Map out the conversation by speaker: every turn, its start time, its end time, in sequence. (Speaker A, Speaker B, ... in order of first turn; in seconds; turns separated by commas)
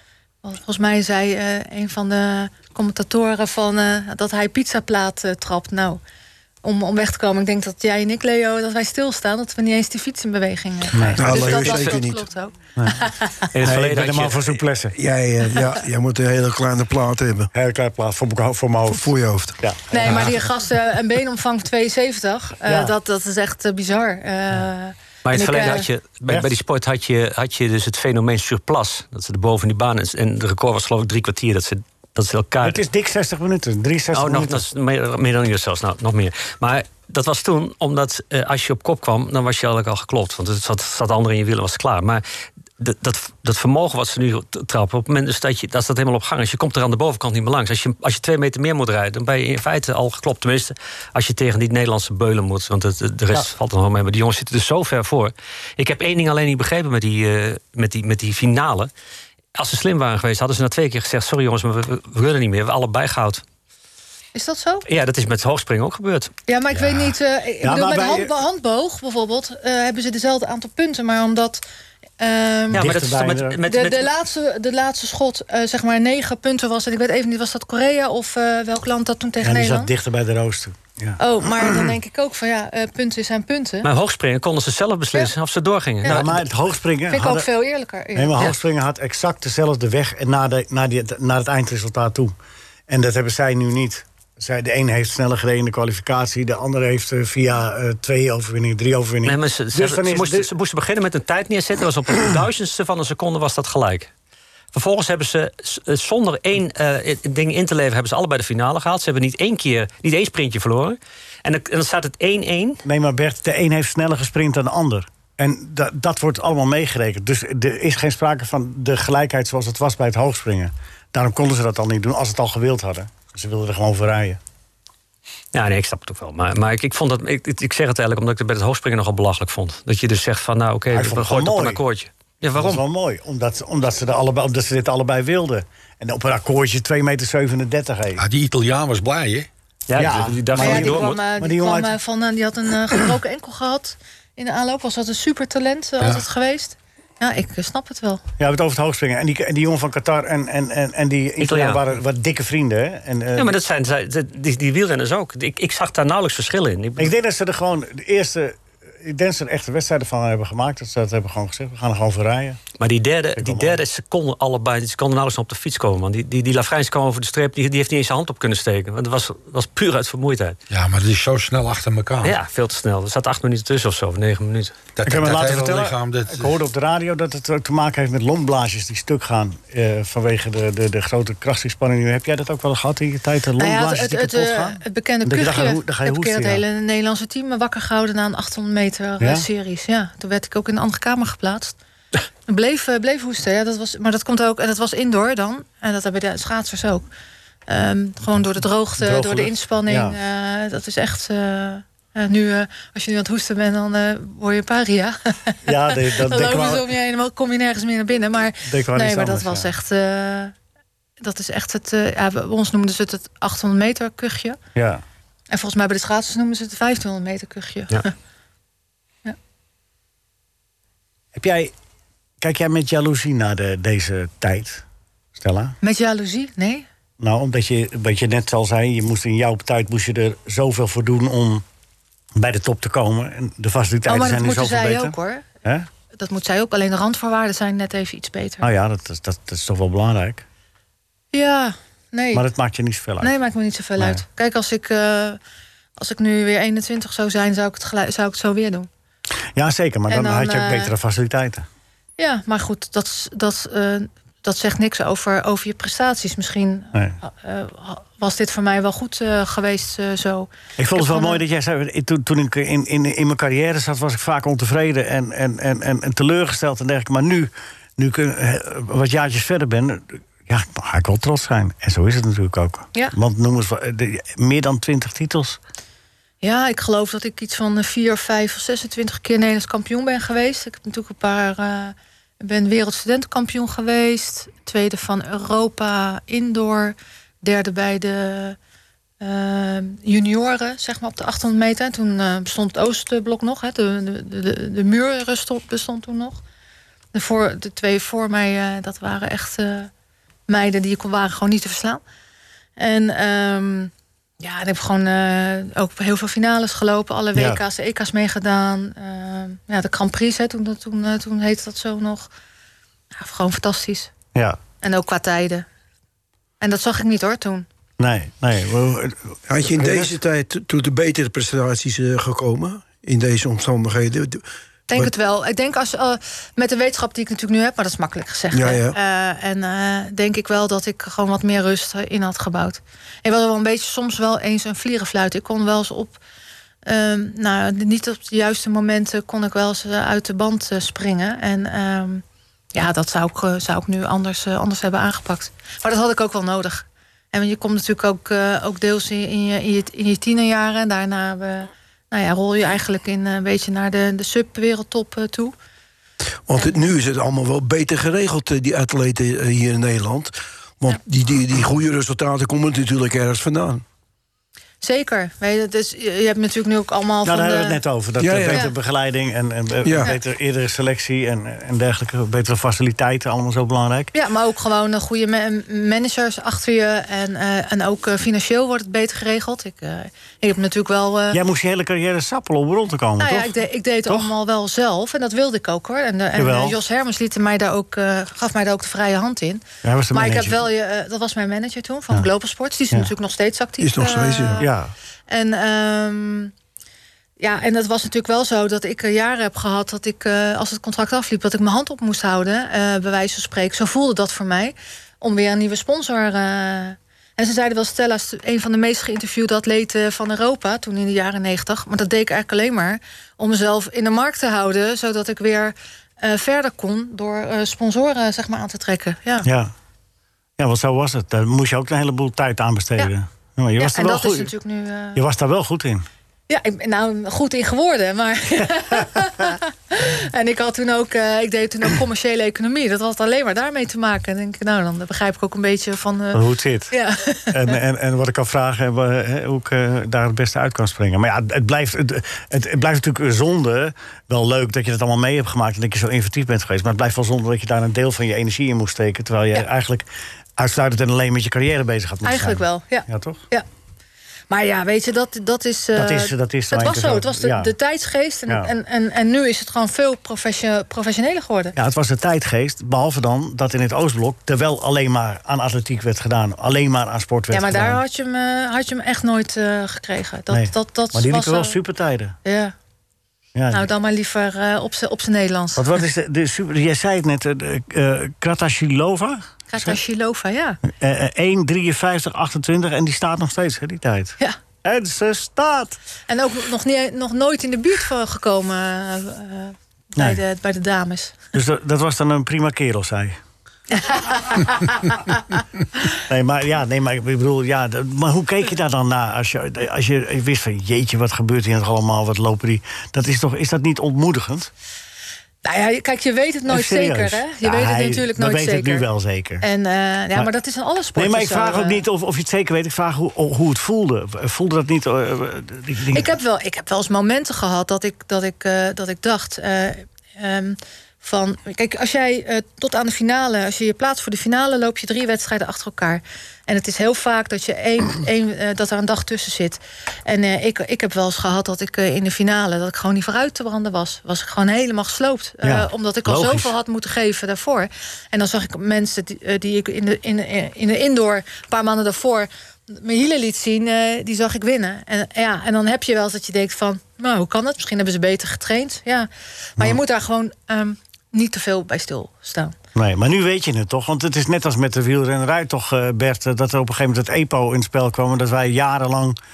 Speaker A: 0.4-6.0, Speaker A: 6.6-13.4, Speaker B: 10.9-11.5, Speaker C: 11.2-12.3, Speaker D: 11.4-11.9, Speaker B: 12.8-13.0, Speaker D: 13.5-14.6, Speaker B: 13.6-15.0, Speaker C: 14.9-17.5, Speaker B: 17.5-20.4, Speaker C: 18.9-19.6, Speaker A: 19.9-25.9, Speaker B: 22.7-22.9, Speaker D: 25.2-32.8, Speaker B: 26.3-26.6, Speaker B: 32.6-34.7, Speaker D: 34.1-42.2, Speaker D: 42.8-58.9, Speaker D: 59.6-63.4, Speaker A: 64.3-64.8, Speaker D: 64.9-66.3, Speaker A: 66.5-71.6, Speaker E: 66.8-67.1, Speaker B: 67.6-68.3, Speaker A: 72.2-72.9, Speaker D: 72.7-74.1, Speaker B: 72.7-73.6, Speaker A: 73.7-79.9, Speaker B: 79.4-81.2, Speaker A: 81.2-83.9, Speaker D: 83.8-86.4, Speaker B: 86.0-87.5, Speaker A: 87.1-88.4, Speaker B: 88.2-92.3, Speaker B: 92.9-100.5, Speaker D: 99.2-104.1, Speaker D: 104.7-112.8, Speaker B: 112.8-124.4, Speaker D: 125.5-132.8, Speaker B: 130.9-131.8, Speaker B: 132.6-138.2, Speaker E: 138.2-139.5, Speaker D: 139.9-141.2, Speaker B: 140.0-141.9, Speaker A: 140.6-148.2, Speaker B: 148.4-153.6, Speaker D: 151.4-151.8, Speaker D: 153.4-157.1, Speaker B: 157.0-162.6, Speaker D: 162.8-170.6, Speaker B: 163.4-163.8, Speaker E: 170.7-172.4, Speaker D: 172.2-174.8, Speaker E: 175.0-176.6, Speaker B: 175.1-186.6, Speaker A: 183.6-191.8, Speaker B: 189.2-189.5, Speaker A: 192.5-197.1, Speaker A: 197.7-210.5, Speaker B: 199.0-200.2, Speaker B: 205.7-206.9, Speaker B: 208.7-209.7, Speaker A: 211.2-214.6, Speaker B: 214.8-215.0, Speaker A: 215.5-218.1, Speaker B: 221.3-221.7, Speaker B: 222.4-224.8, Speaker B: 225.4-225.8, Speaker A: 225.8-226.9, Speaker B: 227.2-231.6, Speaker B: 232.3-235.9, Speaker A: 234.1-235.5, Speaker A: 236.1-238.7, Speaker B: 238.6-240.5, Speaker A: 241.3-242.4, Speaker B: 242.3-243.4, Speaker A: 243.2-245.4, Speaker B: 244.0-244.2, Speaker A: 246.0-248.9, Speaker B: 249.6-251.7, Speaker A: 250.1-250.9, Speaker A: 252.2-261.4, Speaker B: 260.8-275.6, Speaker A: 276.4-288.6, Speaker A: 289.2-296.4, Speaker A: 297.1-299.9, Speaker A: 300.5-302.0, Speaker A: 302.8-312.3, Speaker B: 307.4-307.6, Speaker A: 313.1-314.1, Speaker A: 314.8-315.7, Speaker A: 316.6-317.7, Speaker B: 318.0-320.2, Speaker C: 319.5-325.1, Speaker A: 324.9-336.2, Speaker C: 328.5-329.0, Speaker A: 336.9-355.5, Speaker C: 356.5-363.8, Speaker A: 364.8-367.8, Speaker B: 367.2-374.1, Speaker C: 368.2-368.6, Speaker A: 368.5-368.7, Speaker C: 369.9-370.1, Speaker A: 374.1-381.4, Speaker B: 381.3-383.5, Speaker A: 383.2-394.7, Speaker B: 384.1-384.3, Speaker B: 386.4-386.8, Speaker B: 389.8-390.6, Speaker C: 393.8-394.6, Speaker B: 394.6-394.9, Speaker A: 395.3-396.5, Speaker A: 397.4-419.5, Speaker B: 419.4-419.7, Speaker B: 420.6-424.5, Speaker A: 423.8-425.2, Speaker B: 425.1-426.1, Speaker A: 426.5-437.8, Speaker B: 436.3-436.9, Speaker B: 437.5-453.4, Speaker A: 452.2-453.7, Speaker A: 454.5-461.8, Speaker B: 455.9-457.7, Speaker B: 458.5-458.7, Speaker B: 461.8-468.0, Speaker A: 467.5-471.8, Speaker B: 470.5-472.4, Speaker A: 472.4-472.8, Speaker B: 473.6-473.9, Speaker A: 473.7-476.0, Speaker B: 475.8-480.0, Speaker A: 479.7-480.8, Speaker B: 480.9-486.0, Speaker A: 486.3-491.4, Speaker B: 491.5-493.4, Speaker A: 493.9-495.2, Speaker B: 496.2-504.7, Speaker A: 505.6-509.1, Speaker B: 506.7-509.7, Speaker A: 509.6-512.0, Speaker B: 511.1-516.4, Speaker A: 516.1-552.8, Speaker B: 535.6-536.7, Speaker B: 553.0-559.4